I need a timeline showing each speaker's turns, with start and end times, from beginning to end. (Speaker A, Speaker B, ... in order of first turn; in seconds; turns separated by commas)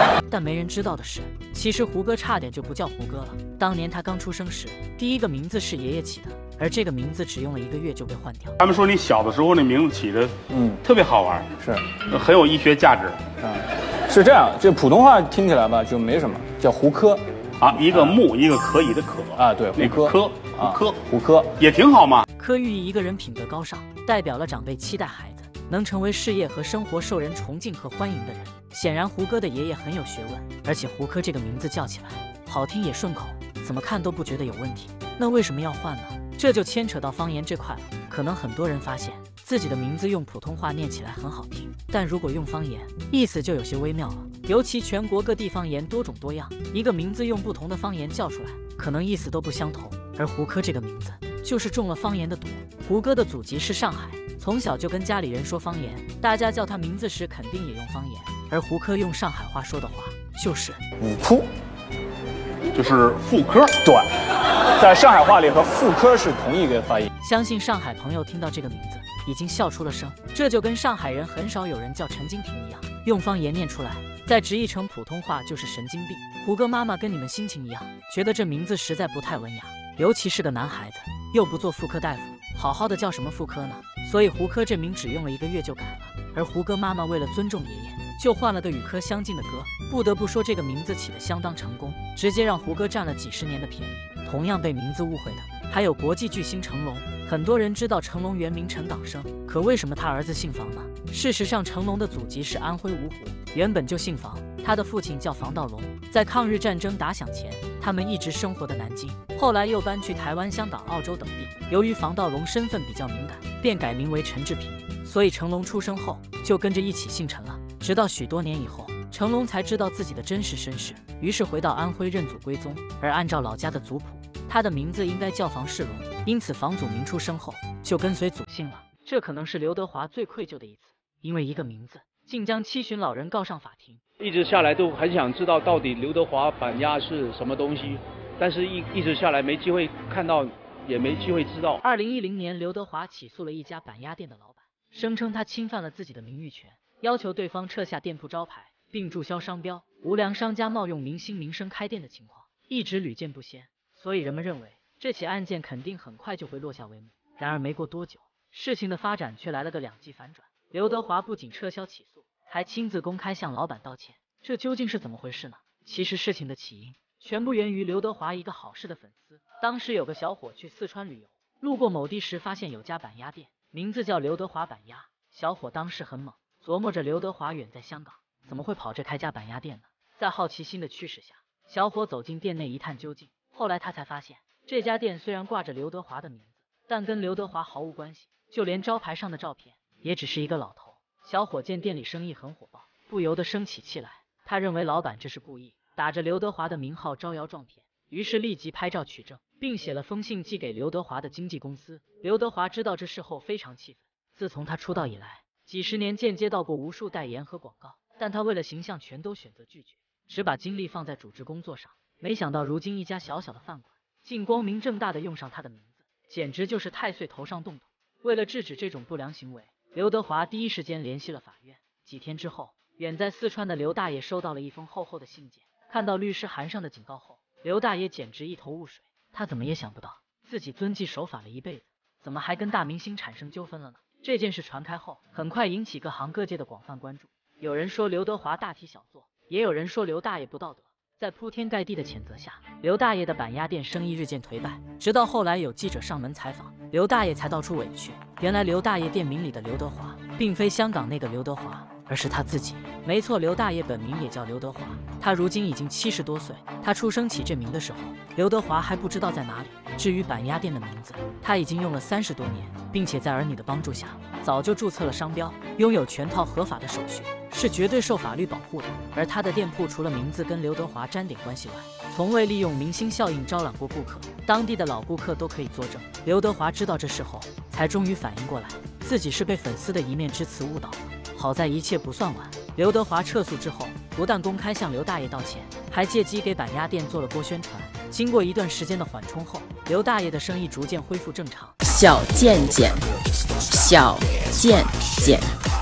Speaker A: 0.2-8.6, Speaker B: 8.6-11.5, Speaker C: 10.5-10.8, Speaker C: 11.6-11.8, Speaker B: 12.1-13.2, Speaker C: 13.4-17.2, Speaker B: 17.6-21.0, Speaker C: 17.9-18.2, Speaker C: 19.4-21.6, Speaker B: 21.6-22.2, Speaker A: 22.4-60.8, Speaker C: 61.0-61.5, Speaker B: 62.7-63.8, Speaker C: 63.8-64.1, Speaker C: 64.7-67.1, Speaker A: 67.2-134.0, Speaker D: 134.2-141.8, Speaker A: 141.8-291.8, Speaker E: 291.9-293.0, Speaker E: 293.7-295.5